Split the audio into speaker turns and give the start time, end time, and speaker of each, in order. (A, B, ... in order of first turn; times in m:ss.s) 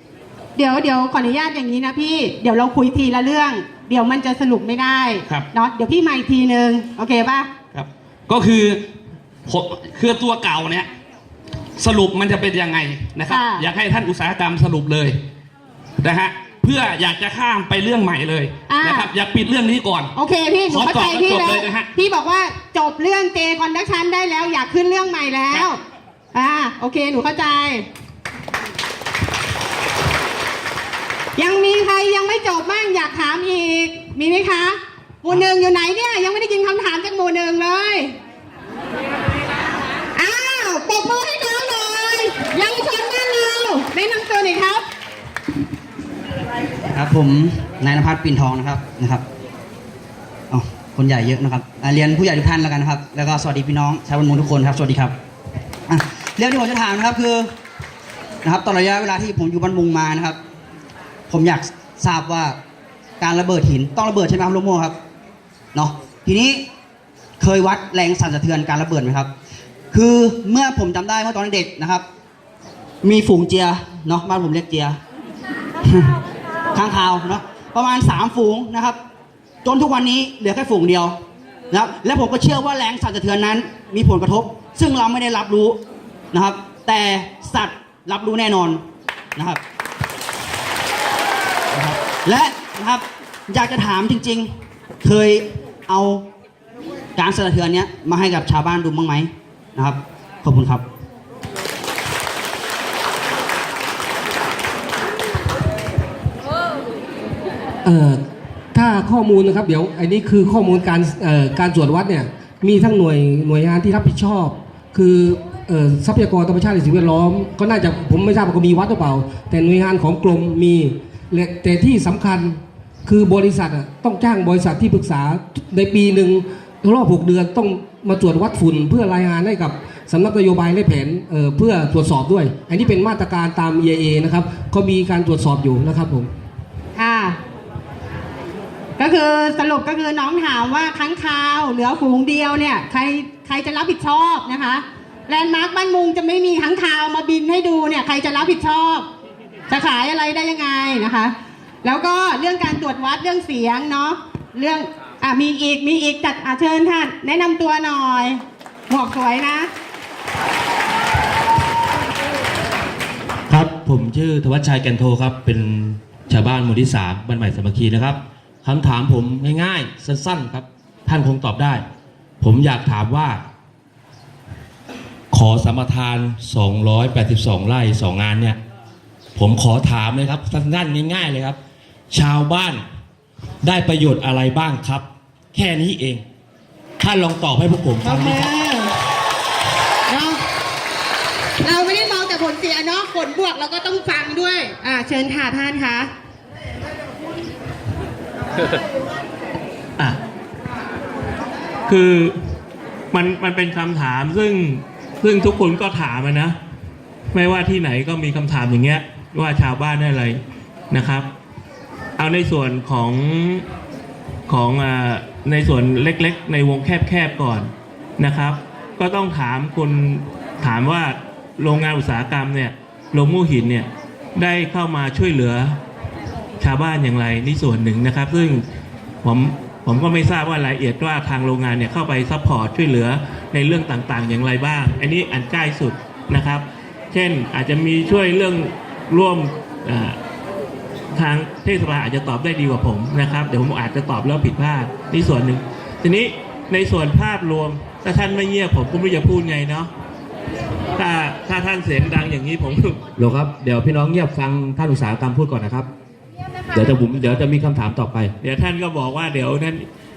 0:00.6-0:07.5 A
0:07.7-0:08.8 B
0:09.5-0:10.9 B
0:11.8-0:15.2 B
0:13.3-0:13.6 A
0:16.0-0:20.1 B
0:18.7-0:19.1 A
0:20.1-0:25.8 A
0:20.7-0:21.9 B
0:26.3-0:27.8 A
0:31.4-0:38.1 A
0:40.1-0:44.8 A
0:46.9-0:49.2 C
0:50.5-0:55.2 C
0:55.9-0:57.5 C
0:58.4-1:00.4 C
1:01.3-1:02.6 C
1:03.2-1:05.0 C
1:05.7-1:06.7 C
1:07.4-1:09.3 C
1:09.9-1:12.0 C
1:13.0-1:15.0 C
1:15.8-1:16.1 C
1:16.7-1:19.0 C
1:19.6-1:21.2 C
1:21.7-1:25.8 C
1:26.3-1:28.8 C
1:29.4-1:29.6 C
1:31.7-1:34.5 C
1:35.0-1:36.2 C
1:37.2-1:40.8 C
1:47.8-2:16.3 D
2:17.0-2:17.4 A
2:19.0-2:29.1 A
2:29.7-2:39.7 A
2:43.5-2:51.8 E
2:52.4-2:53.4 E
2:55.3-2:58.6 E
2:59.4-3:01.6 E
3:02.1-3:02.8 E
3:03.6-3:06.2 E
3:07.0-3:08.5 E
3:08.0-3:08.9 A
3:10.1-3:10.4 A
3:11.6-3:16.1 A
3:21.9-3:22.3 F
3:23.1-3:26.6 F
3:27.3-3:30.4 F
3:30.9-3:31.3 F
3:32.2-3:33.6 F
3:34.5-3:45.8 F
3:46.6-3:48.6 F
3:49.2-4:00.2 F
4:01.1-4:09.9 F
4:11.0-4:13.0 F
4:13.2-4:15.9 E
4:16.7-4:18.3 E
4:18.4-4:19.8 F